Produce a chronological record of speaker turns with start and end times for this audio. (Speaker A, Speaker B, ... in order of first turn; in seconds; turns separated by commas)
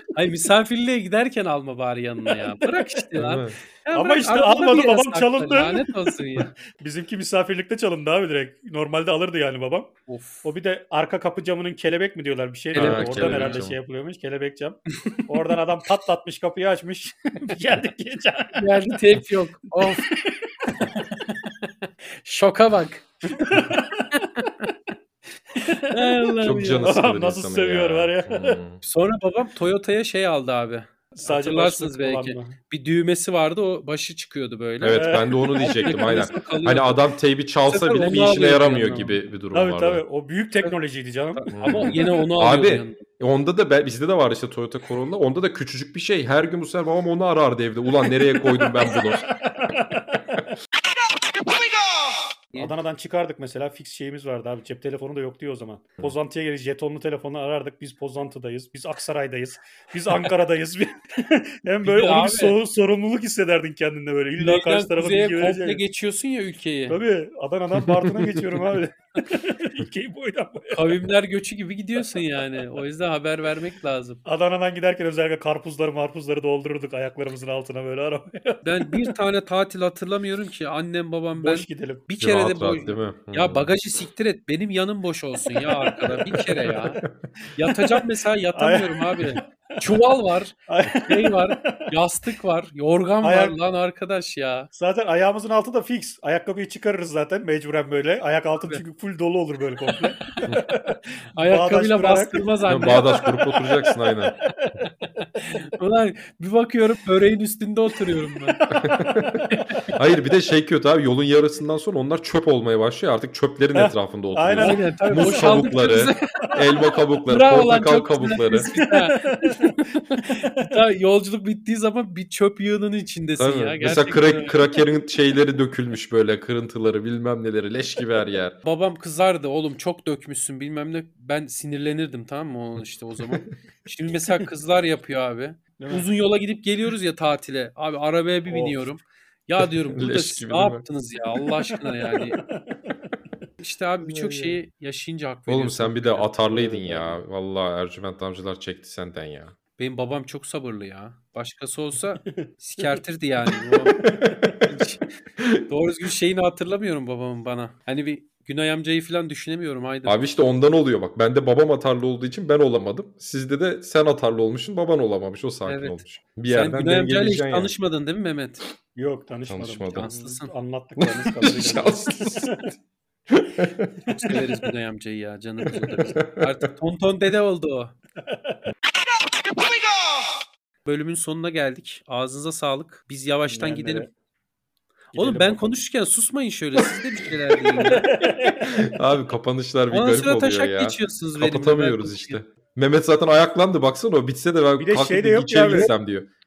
Speaker A: 0.1-6.5, Speaker B: 2.3-2.8, Speaker C: 3.1-3.6, Speaker B: 3.9-5.9, Speaker B: 6.4-9.9, Speaker A: 10.1-10.5, Speaker B: 10.4-18.6, Speaker A: 12.7-13.6, Speaker C: 12.7-13.8, Speaker A: 18.6-20.1, Speaker B: 19.8-20.9, Speaker A: 20.7-24.6, Speaker B: 23.4-24.1, Speaker A: 25.6-26.9, Speaker B: 25.6-28.6, Speaker C: 26.4-28.8, Speaker A: 28.8-35.1, Speaker B: 31.1-32.6, Speaker C: 34.8-40.0, Speaker B: 34.9-36.6, Speaker A: 35.8-37.0, Speaker A: 37.6-39.2, Speaker B: 39.5-42.0, Speaker A: 41.3-43.0, Speaker C: 41.5-49.3, Speaker B: 48.5-50.4, Speaker B: 52.6-65.8, Speaker A: 61.8-62.5, Speaker A: 64.4-67.0, Speaker B: 66.9-70.9, Speaker A: 70.7-74.2, Speaker B: 74.2-78.6, Speaker A: 78.6-87.0, Speaker B: 81.3-82.0, Speaker C: 82.2-83.7, Speaker B: 85.9-86.2, Speaker A: 87.5-94.7, Speaker B: 87.7-88.0, Speaker B: 88.5-89.8, Speaker B: 90.7-91.8, Speaker B: 93.2-93.6, Speaker B: 94.7-103.4, Speaker A: 101.3-103.2, Speaker C: 102.7-104.3, Speaker B: 104.4-104.7, Speaker A: 104.4-108.6, Speaker B: 108.4-109.9, Speaker C: 108.7-118.7, Speaker A: 109.5-109.8, Speaker B: 113.7-115.8, Speaker A: 114.6-116.5, Speaker A: 117.3-124.7, Speaker B: 118.7-120.2, Speaker C: 123.4-128.6, Speaker A: 128.6-142.4, Speaker B: 135.8-136.1, Speaker B: 138.5-138.8, Speaker C: 139.6-140.8, Speaker B: 142.4-142.9, Speaker A: 143.6-147.2, Speaker B: 144.1-144.5, Speaker C: 145.5-149.6, Speaker A: 149.8-155.0, Speaker B: 152.4-152.9, Speaker B: 154.1-154.6, Speaker C: 154.1-154.4, Speaker A: 155.7-160.2, Speaker C: 160.1-167.7, Speaker A: 165.6-168.6, Speaker B: 168.9-172.7, Speaker C: 169.5-170.1, Speaker A: 169.9-170.5, Speaker C: 171.0-172.7, Speaker C: 173.3-173.9, Speaker A: 174.0-177.9, Speaker C: 175.8-176.5, Speaker B: 178.3-178.5, Speaker A: 180.8-184.1, Speaker B: 183.4-184.1, Speaker B: 185.1-185.7, Speaker A: 185.1-188.1, Speaker B: 188.0-188.6, Speaker C: 188.4-196.3, Speaker A: 189.9-192.4, Speaker B: 194.8-195.9